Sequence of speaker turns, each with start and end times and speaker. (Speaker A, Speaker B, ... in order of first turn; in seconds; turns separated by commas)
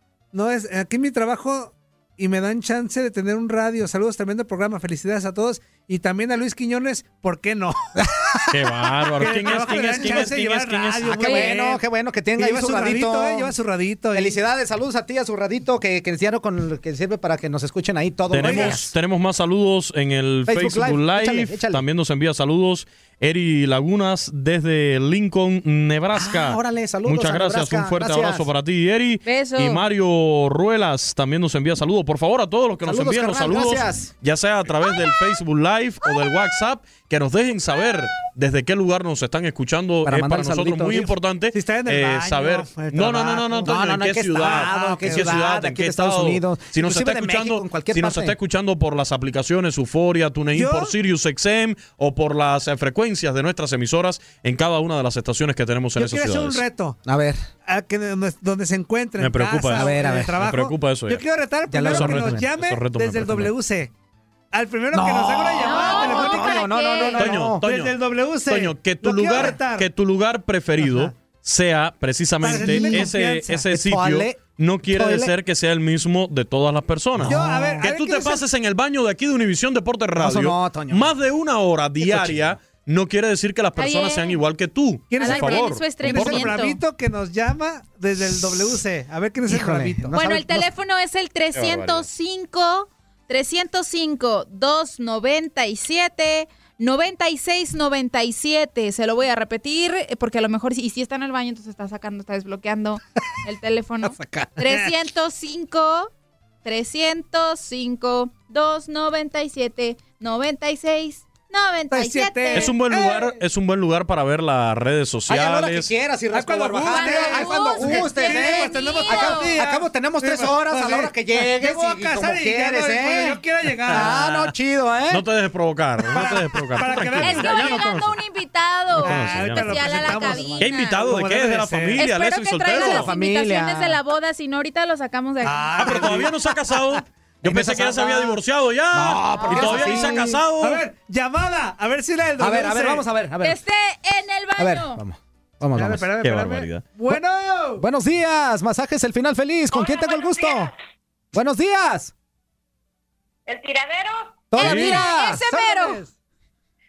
Speaker A: 0.3-8.4, Speaker B: 8.5-11.4, Speaker A: 9.2-11.8, Speaker C: 11.2-11.5, Speaker D: 11.2-13.6, Speaker A: 12.4-14.4, Speaker D: 14.1-18.9, Speaker B: 18.3-56.6, Speaker A: 18.4-18.9, Speaker D: 20.5-21.8, Speaker D: 26.1-28.5, Speaker C: 29.2-29.8, Speaker D: 32.9-34.1, Speaker D: 40.0-41.1, Speaker A: 41.5-43.7, Speaker D: 43.6-48.4, Speaker A: 44.4-45.4, Speaker A: 50.5-50.9, Speaker A: 56.0-57.0, Speaker D: 57.0-57.5, Speaker A: 57.7-63.9, Speaker B: 59.2-61.2, Speaker D: 59.7-60.4, Speaker D: 61.7-62.5, Speaker B: 61.9-63.5, Speaker A: 64.5-66.7, Speaker D: 64.9-67.6, Speaker C: 65.6-67.3, Speaker B: 67.2-86.5, Speaker A: 67.6-69.9, Speaker A: 70.8-71.1, Speaker A: 72.4-73.6, Speaker D: 72.5-75.3, Speaker D: 77.2-77.8, Speaker A: 77.2-78.4, Speaker D: 80.2-81.1, Speaker D: 82.0-82.5, Speaker C: 83.8-84.4, Speaker A: 85.1-90.2, Speaker C: 85.2-86.8, Speaker D: 89.5-90.7, Speaker C: 90.1-106.1, Speaker B: 91.5-92.1, Speaker A: 104.2-104.9, Speaker C: 106.6-112.8, Speaker A: 111.9-113.3, Speaker B: 112.5-115.9, Speaker D: 115.3-125.2, Speaker A: 116.3-124.2, Speaker C: 116.9-119.7, Speaker B: 123.9-124.5, Speaker B: 125.1-128.2, Speaker A: 126.1-127.8, Speaker C: 127.2-131.1, Speaker B: 128.9-130.0, Speaker A: 129.0-132.1, Speaker D: 130.1-130.7, Speaker B: 130.6-133.1, Speaker C: 132.0-136.1, Speaker D: 132.7-134.0, Speaker A: 135.4-136.3, Speaker B: 135.8-140.8, Speaker D: 137.4-138.4, Speaker D: 138.9-140.4, Speaker C: 139.4-139.9, Speaker A: 140.6-143.0, Speaker D: 142.4-143.6, Speaker C: 143.4-145.0, Speaker D: 144.6-146.1, Speaker A: 145.8-147.8, Speaker B: 146.2-146.8, Speaker D: 147.8-150.7, Speaker E: 149.7-150.7, Speaker D: 151.3-152.1, Speaker E: 153.5-154.6, Speaker D: 154.5-156.0, Speaker C: 154.6-156.0, Speaker B: 154.6-155.1